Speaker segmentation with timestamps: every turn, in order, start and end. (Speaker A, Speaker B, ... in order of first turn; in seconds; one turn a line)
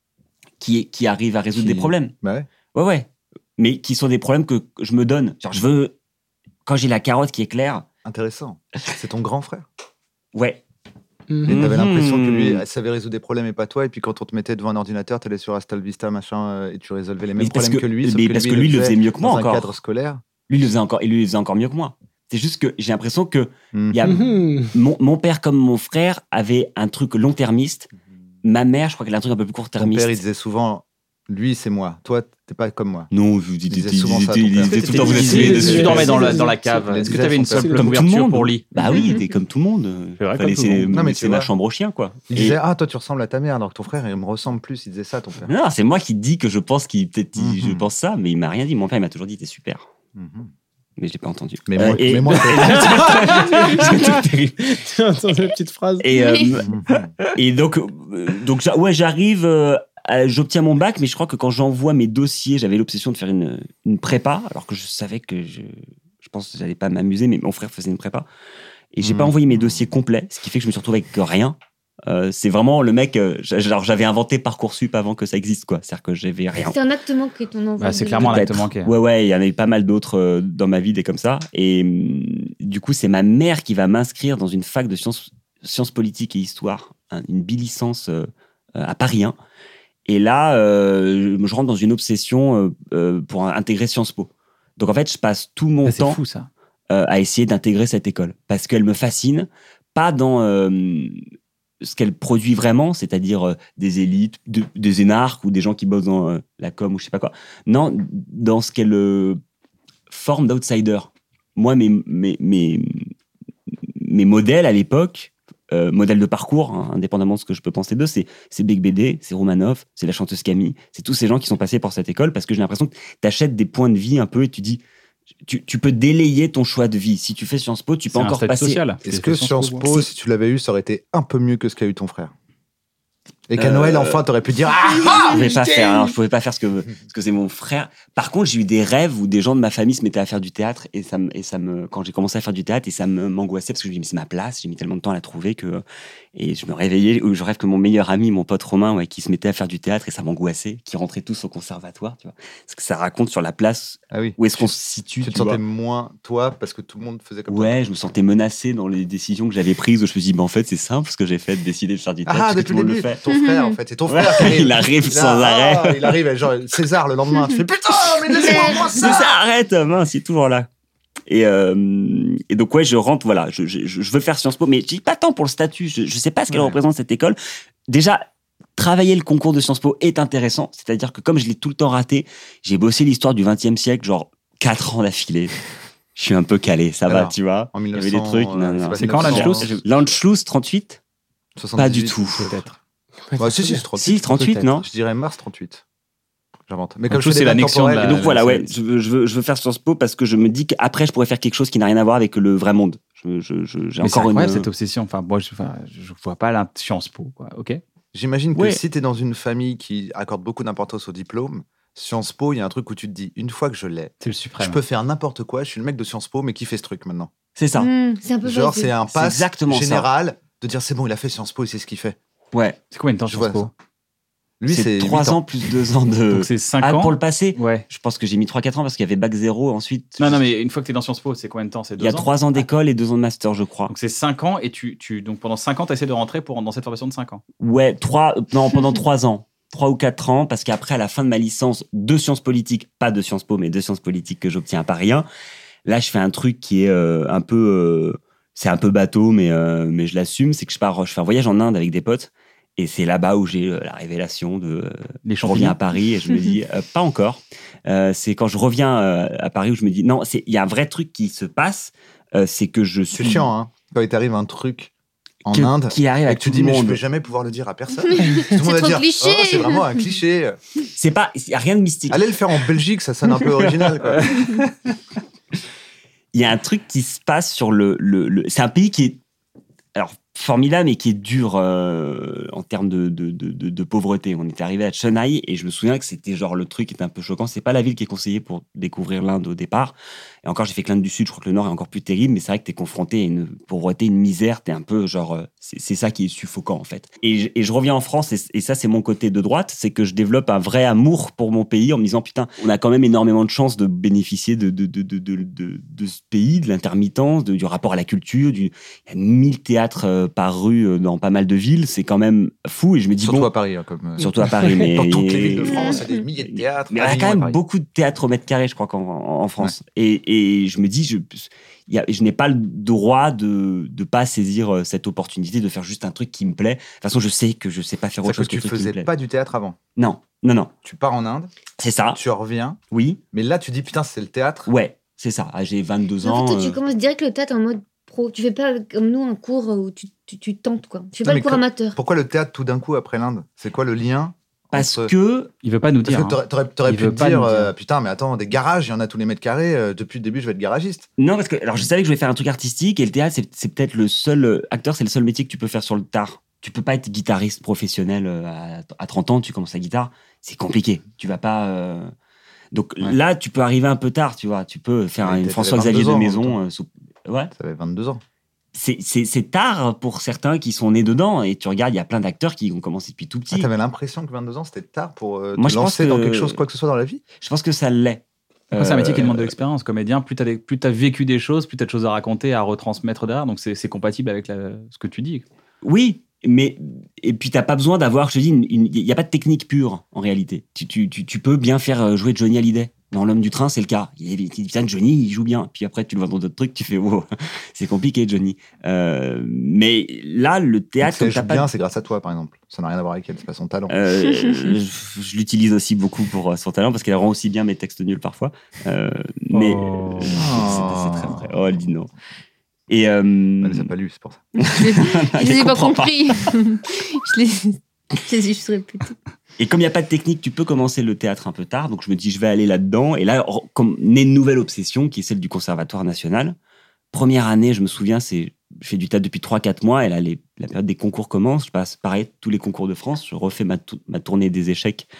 Speaker A: 0.6-2.1
Speaker B: 1.5-2.5
Speaker A: 2.7-3.1
Speaker A: 3.6-5.9
Speaker A: 6.7-7.8
Speaker B: 8.0-9.7
Speaker A: 10.3-10.6
Speaker C: 11.3-11.6
Speaker B: 11.4-20.2
Speaker A: 11.4-12.6
Speaker A: 17.4-19.7
Speaker A: 20.5-27.9
Speaker B: 23.7-24.0
Speaker C: 24.0-24.7
Speaker A: 28.4-30.2
Speaker B: 29.8-33.1
Speaker A: 33.1-36.2
Speaker B: 33.7-37.9
Speaker D: 34.6-38.7
Speaker C: 35.1-38.0
Speaker A: 37.8-42.6
Speaker D: 40.2-40.9
Speaker B: 40.9-41.5
Speaker B: 42.3-45.5
Speaker A: 45.5-49.9
Speaker B: 47.4-47.9
Speaker B: 50.1-50.5
Speaker A: 51.0-54.6
Speaker B: 51.7-52.9
Speaker C: 52.7-56.0
Speaker A: 56.0-56.7
Speaker E: 56.1-56.5
Speaker B: 56.6-57.1
Speaker A: 57.3-68.2
Speaker A: 68.9-71.5
Speaker B: 69.0-69.9
Speaker A: 72.1-76.8
Speaker E: 76.6-78.5
Speaker D: 77.8-78.9
Speaker A: 78.2-89.3
Speaker A: 90.0-96.2
Speaker D: 95.8-96.5
Speaker A: 96.9-101.2
Speaker A: 101.8-109.4
Speaker A: 110.1-113.1
Speaker A: 114.0-124.8
Speaker A: 125.5-128.8
Speaker D: 128.1-130.1
Speaker B: 129.0-132.3
Speaker B: 133.5-135.7
Speaker A: 133.6-134.2
Speaker A: 135.2-145.8
Speaker A: 146.3-155.6
Speaker B: 154.1-157.8
Speaker A: 157.5-163.2
Speaker B: 162.2-169.3
Speaker E: 163.3-163.7
Speaker A: 164.1-166.2
Speaker A: 168.2-170.7
Speaker A: 171.3-177.4
Speaker A: 177.9-178.2
Speaker A: 178.8-185.6
Speaker A: 186.1-191.0
Speaker B: 187.1-189.8
Speaker D: 188.9-189.7
Speaker B: 191.6-192.6
Speaker A: 191.8-192.5
Speaker D: 192.4-192.7
Speaker C: 193.3-193.8
Speaker B: 193.4-195.8
Speaker A: 193.9-194.8
Speaker B: 196.7-198.3
Speaker D: 197.1-198.7
Speaker A: 198.0-204.7
Speaker D: 204.0-207.8
Speaker B: 208.1-217.3
Speaker A: 208.5-208.8
Speaker D: 214.2-214.8
Speaker A: 217.6-217.9
Speaker E: 217.8-218.9
Speaker B: 218.4-222.2
Speaker A: 219.1-220.1
Speaker A: 222.5-222.8
Speaker D: 222.9-223.7
Speaker B: 223.3-223.7
Speaker B: 224.6-225.4
Speaker A: 224.7-230.5
Speaker D: 226.3-227.8
Speaker D: 230.2-232.7
Speaker A: 232.0-233.9
Speaker D: 233.9-237.4
Speaker A: 237.6-245.2
Speaker A: 245.8-263.5
Speaker D: 255.2-255.8
Speaker B: 263.1-264.9
Speaker B: 265.4-270.6
Speaker A: 265.5-267.0
Speaker E: 268.1-269.8
Speaker A: 270.9-272.2
Speaker B: 272.1-274.4
Speaker A: 273.6-273.9
Speaker A: 276.3-279.2
Speaker A: 279.9-313.5
Speaker B: 313.2-317.6
Speaker A: 314.2-316.0
Speaker E: 315.7-316.0
Speaker A: 316.5-329.1
Speaker B: 328.2-329.8
Speaker A: 330.0-330.7
Speaker B: 330.8-331.5
Speaker A: 331.8-332.2
Speaker B: 332.1-332.8
Speaker A: 332.9-333.2
Speaker B: 333.3-334.7
Speaker A: 334.7-336.8
Speaker E: 336.2-341.9
Speaker B: 341.2-345.1
Speaker A: 344.7-345.5
Speaker D: 345.6-347.7
Speaker B: 346.0-351.1
Speaker A: 351.2-362.1
Speaker A: 362.7-367.5
Speaker B: 365.2-366.6
Speaker B: 367.5-368.2
Speaker A: 368.7-373.7
Speaker B: 373.5-377.2
Speaker A: 375.6-376.6
Speaker A: 377.4-379.5
Speaker D: 378.7-385.4
Speaker A: 385.8-401.7
Speaker B: 401.0-403.9
Speaker A: 403.9-412.1
Speaker D: 409.5-410.5
Speaker B: 410.3-411.5
Speaker A: 412.9-413.9
Speaker B: 413.6-414.4
Speaker E: 414.6-419.1
Speaker A: 414.6-416.5
Speaker A: 419.6-426.6
Speaker A: 427.1-435.1